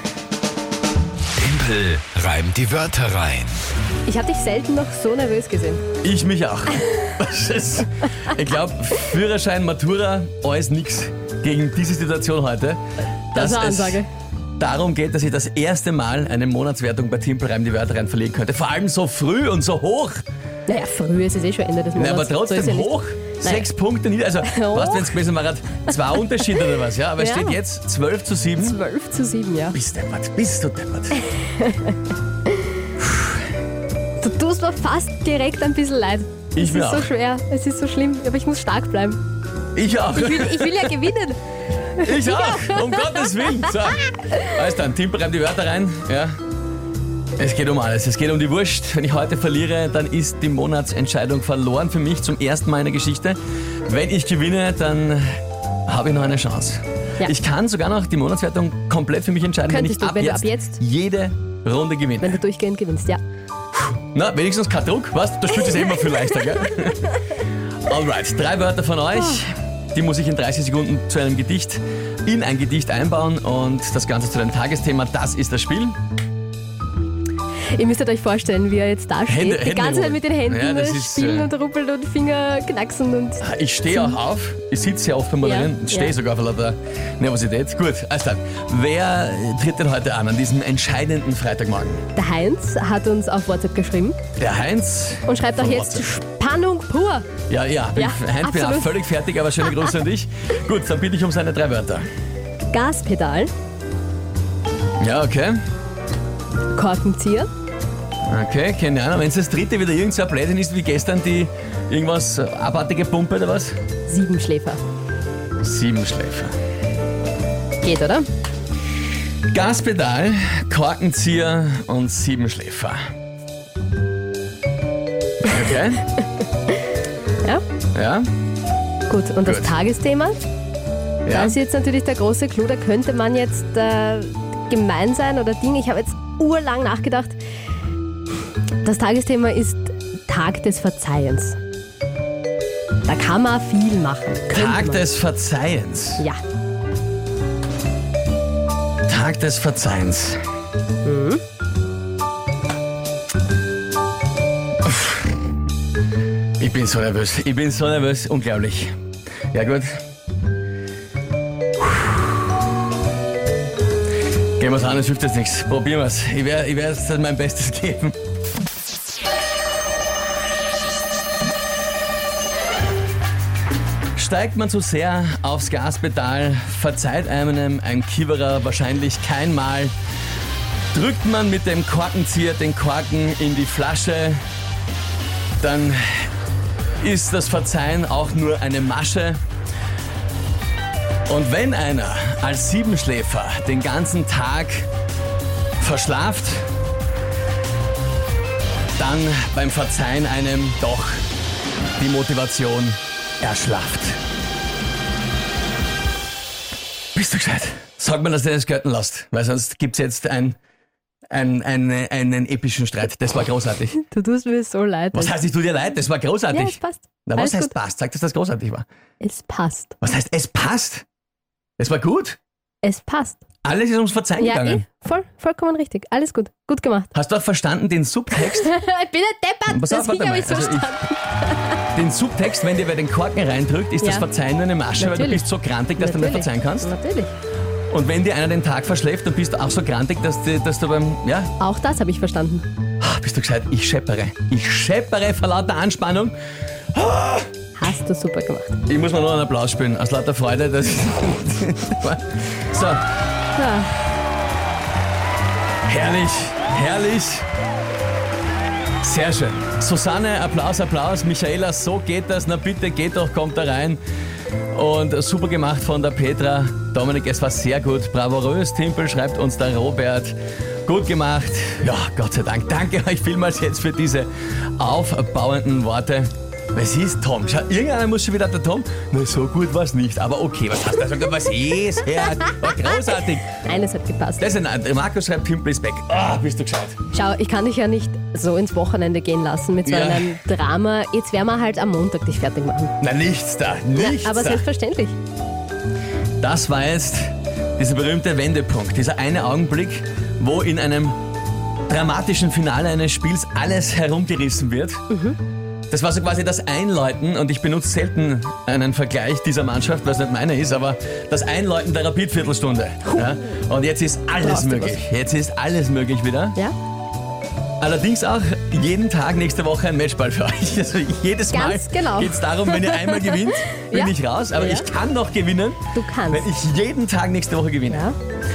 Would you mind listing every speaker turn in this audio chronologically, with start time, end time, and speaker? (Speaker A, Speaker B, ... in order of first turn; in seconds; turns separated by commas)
Speaker A: 1.4-3.6, Speaker B: 4.0-5.8, Speaker C: 6.0-12.8, Speaker C: 13.3-14.0, Speaker B: 13.3-14.1, Speaker C: 14.6-20.2, Speaker B: 20.7-23.7, Speaker C: 21.9-28.8, Speaker B: 24.4-25.1, Speaker B: 27.2-27.6, Speaker B: 28.6-29.8, Speaker C: 29.7-31.2, Speaker B: 31.5-31.9, Speaker C: 33.0-33.3, Speaker B: 34.2-39.2, Speaker C: 36.5-37.1, Speaker C: 39.7-41.0, Speaker B: 40.1-41.4, Speaker B: 41.9-43.6, Speaker C: 42.0-46.3, Speaker C: 47.4-55.3, Speaker C: 55.9-62.4, Speaker B: 59.7-60.8, Speaker B: 62.2-63.2, Speaker C: 63.7-76.0, Speaker B: 77.7-84.2, Speaker C: 79.3-81.5, Speaker C: 83.4-92.0, Speaker B: 85.4-86.1, Speaker B: 92.1-94.2, Speaker C: 94.4-96.1, Speaker B: 95.3-97.3, Speaker C: 97.5-102.0, Speaker B: 97.9-99.0, Speaker B: 99.6-99.9, Speaker B: 102.7-103.5, Speaker C: 105.0-105.5, Speaker B: 106.7-107.5, Speaker C: 108.3-113.8, Speaker B: 114.1-114.8, Speaker C: 115.6-116.5, Speaker B: 117.8-118.3, Speaker C: 119.5-123.0, Speaker C: 125.4-126.1, Speaker C: 127.9-128.3, Speaker B: 129.1-130.4, Speaker C: 129.4-129.7, Speaker C: 131.2-131.6, Speaker B: 131.3-137.4, Speaker B: 138.8-141.6, Speaker B: 143.1-145.1, Speaker C: 144.5-146.2, Speaker C: 149.1-150.4, Speaker B: 151.0-151.4, Speaker C: 156.6-158.9, Speaker C: 159.5-160.0, Speaker C: 161.8-162.2, Speaker C: 164.6-168.2, Speaker C: 174.2-179.9, Speaker C: 180.9-184.4, Speaker C: 185.6-186.3, Speaker C: 187.0-189.4, Speaker C: 191.3-194.9, Speaker C: 195.8-196.7, Speaker C: 199.0-201.2, Speaker C: 202.0-204.2, Speaker C: 207.1-210.6, Speaker C: 211.3-214.0, Speaker B: 214.0-215.4, Speaker C: 215.1-218.8, Speaker B: 216.5-217.7, Speaker B: 219.2-219.9, Speaker C: 220.0-221.1, Speaker C: 221.8-222.4, Speaker B: 222.8-223.4, Speaker C: 223.6-224.8, Speaker B: 224.4-227.1, Speaker C: 227.1-228.7, Speaker B: 228.3-231.8, Speaker C: 229.7-231.0, Speaker C: 231.9-236.9, Speaker B: 234.0-234.3, Speaker B: 235.0-237.3, Speaker C: 237.9-241.5, Speaker B: 241.6-242.7, Speaker C: 243.0-246.3, Speaker C: 246.9-247.5, Speaker B: 247.8-248.8, Speaker C: 248.9-253.0, Speaker B: 253.6-253.9, Speaker C: 255.9-257.4, Speaker C: 259.0-264.0, Speaker C: 264.7-283.5, Speaker B: 283.6-284.5, Speaker C: 284.4-287.0, Speaker B: 287.1-292.9, Speaker C: 289.8-290.4, Speaker C: 293.0-294.6, Speaker B: 293.9-295.2, Speaker C: 296.4-301.2, Speaker C: 301.9-305.0, Speaker B: 305.1-305.4, Speaker C: 305.9-316.6, Speaker B: 314.4-315.0, Speaker C: 317.8-328.1, Speaker B: 321.5-324.9, Speaker B: 325.9-326.5, Speaker B: 327.9-328.1